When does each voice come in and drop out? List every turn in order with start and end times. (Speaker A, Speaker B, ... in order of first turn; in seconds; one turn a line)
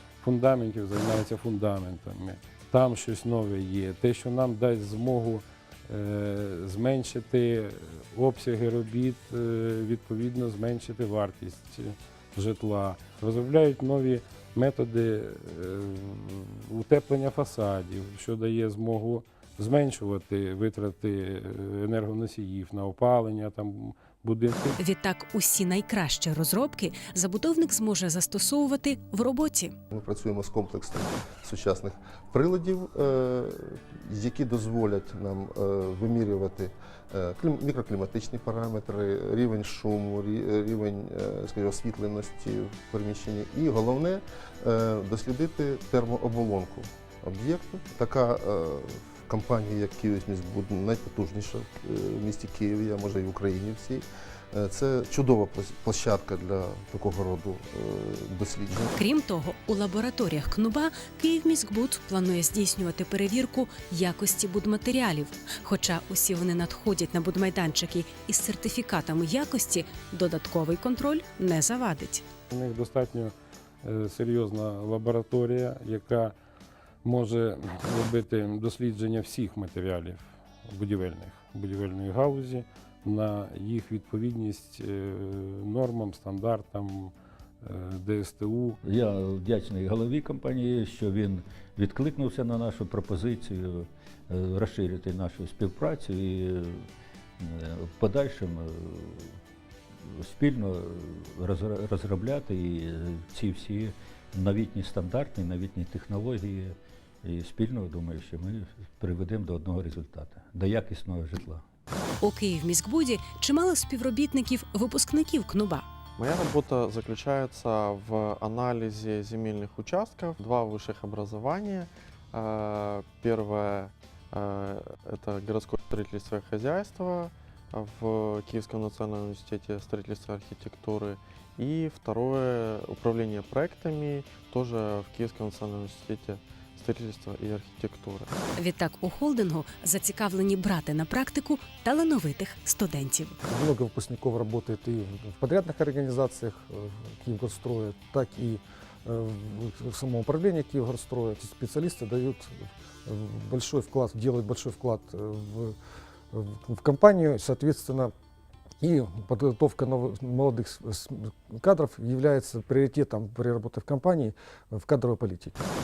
Speaker A: 0.2-24.8
Speaker B: 24.8-29.7
Speaker C: 29.9-58.9
Speaker B: 58.9-72.2
Speaker A: 72.5-76.3
Speaker A: 77.0-88.8
Speaker D: 88.8-96.9
Speaker D: 97.4-99.4
Speaker D: 100.0-111.6
Speaker B: 112.2-115.9
Speaker E: 116.2-138.2
Speaker B: 138.5-143.4
Speaker F: 143.4-155.8
Speaker F: 156.3-158.1
Speaker F: 158.8-165.6